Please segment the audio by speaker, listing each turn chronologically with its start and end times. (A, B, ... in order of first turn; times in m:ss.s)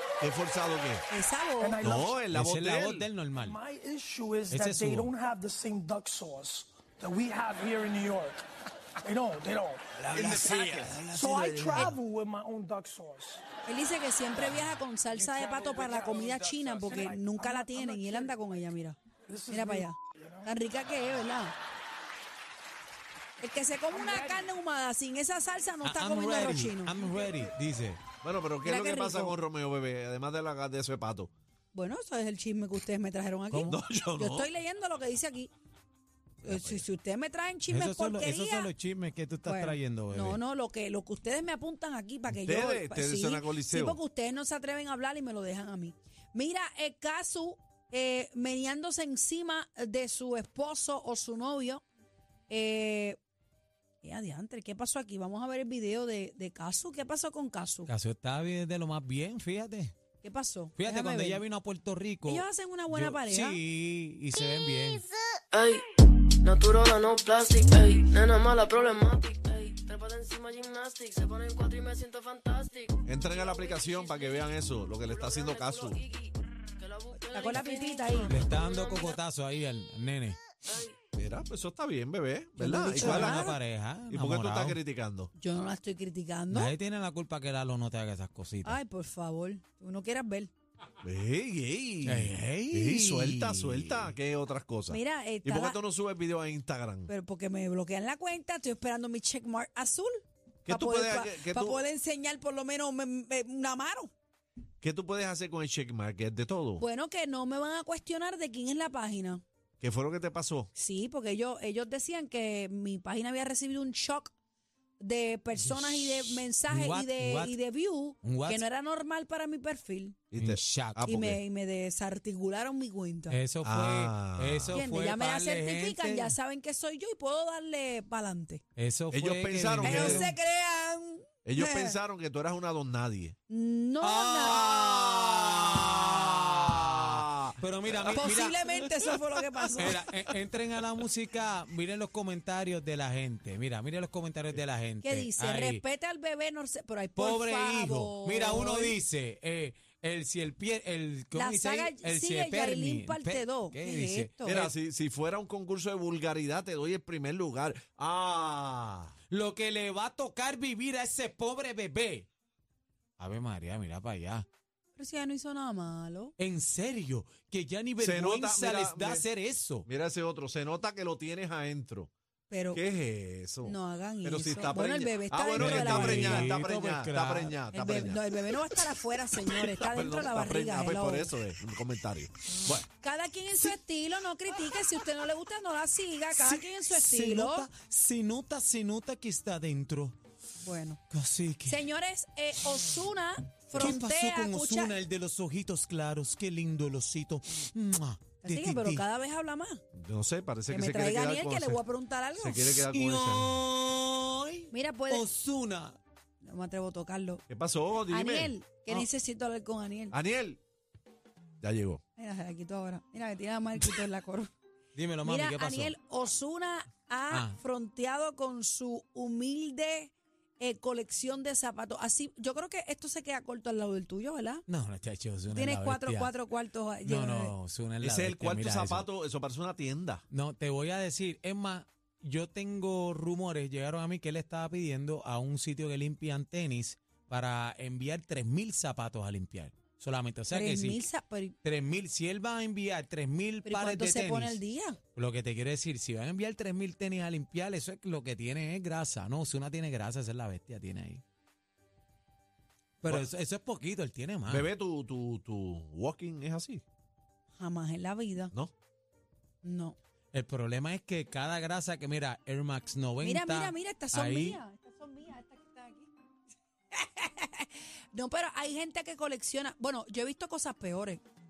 0:00.2-0:01.0 A
0:01.1-0:01.8 B
0:01.6-0:02.2 C
0:01.8-0:03.1 A
0:02.3-0:03.6 D
0:03.4-0:08.4 C
0:04.5-0:05.1 D
0:09.0-0:13.4 C
0:10.1-0:11.1 A
0:10.1-0:11.9 D
0:13.6-0:19.0 B
0:15.1-0:18.4 C
0:19.3-0:20.5 C
0:19.5-0:21.5 B
0:23.4-0:27.0 B
0:23.9-0:24.4 C
0:25.8-0:28.0 D
0:28.2-0:31.3 A
0:28.6-0:29.4 B
0:31.7-0:35.5 B
0:33.6-0:34.5 A
0:36.4-0:36.8 A
0:36.4-0:38.7 B
0:37.7-0:40.4 D
0:39.4-0:51.8 B
0:42.4-0:44.0 A
0:52.5-0:53.2 B
0:54.0-0:57.9 B
0:57.9-0:59.9 D
1:00.2-1:01.4 B
1:00.8-1:05.0 D
1:02.2-1:03.6 B
1:05.5-1:05.8 E
1:06.4-1:19.2 E
1:13.1-1:16.0 A
1:17.3-1:18.4 B
1:18.3-1:20.4 D
1:20.6-1:20.9 E
1:21.2-1:25.3 A
1:22.6-1:23.6 B
1:22.9-1:24.8 D
1:25.4-1:26.7 B
1:26.5-1:28.8 D
1:28.6-1:30.5 B
1:31.0-1:37.1 A
1:32.0-1:34.1 D
1:34.9-1:35.8 B
1:37.1-1:44.1 B
1:40.6-1:41.8 A
1:44.8-1:46.8 A
1:46.8-1:49.4 B
1:49.8-1:50.7 A
1:50.7-1:54.3 B
1:55.0-2:00.2 B
1:55.6-1:57.6 D
1:58.2-1:58.6 D
2:00.3-2:01.4 A
2:00.4-2:01.2 D
2:01.0-2:03.4 B
2:03.3-2:06.3 D
2:03.6-2:04.8 A
2:04.7-2:08.6 B
2:08.8-2:10.3 D
2:09.1-2:10.3 A
2:09.8-2:12.0 B
2:11.4-2:13.4 A
2:13.5-2:14.7 B
2:14.0-2:17.0 D
2:14.4-2:18.2 A
2:17.6-2:19.0 D
2:18.1-2:20.0 B
2:19.6-2:20.2 A
2:19.8-2:25.8 D
2:25.0-2:29.0 B
2:27.2-2:34.7 D
2:31.3-2:34.6 B
2:34.4-2:39.1 A
2:39.3-2:42.3 D
2:43.2-2:44.4 D
2:45.0-2:46.3 B
2:46.4-2:49.9 D
2:48.0-2:49.2 A
2:49.8-2:52.1 A
2:52.5-2:52.8 B
2:52.7-2:58.2 A
2:53.6-2:56.7 B
2:55.6-2:57.6 D
2:57.7-3:01.3 B
2:59.7-3:02.8 A
3:02.9-3:07.7 B
3:06.3-3:10.2 D
3:10.6-3:11.0 B
3:11.1-3:11.8 D
3:11.6-3:15.0 B
3:13.7-3:19.0 D
3:18.4-3:19.8 B
3:19.9-3:21.8 A
3:20.7-3:22.8 B
3:22.4-3:23.6 A
3:22.8-3:26.0 D
3:24.7-3:25.3 B
3:26.4-3:27.4 B
3:27.5-3:28.6 A
3:28.1-3:30.2 B
3:30.1-3:30.6 A
3:31.6-3:32.0 A
3:32.2-3:34.5 B
3:34.9-3:35.9 D
3:35.2-3:44.6 B
3:37.3-3:37.6 D
3:44.7-3:46.3 D
3:45.5-3:47.5 B
3:47.0-3:49.1 D
3:48.0-3:50.2 A
3:50.3-4:01.0 D
4:00.5-4:01.6 B
4:01.6-4:04.6 D
4:03.6-4:05.0 B
4:05.2-4:11.2 D
4:13.0-4:14.7 D
4:13.0-4:13.3 A
4:14.5-4:16.8 A
4:17.5-4:18.5 B
4:19.6-4:20.0 B
4:20.3-4:24.6 D
4:23.2-4:26.1 B
4:26.9-4:31.2 B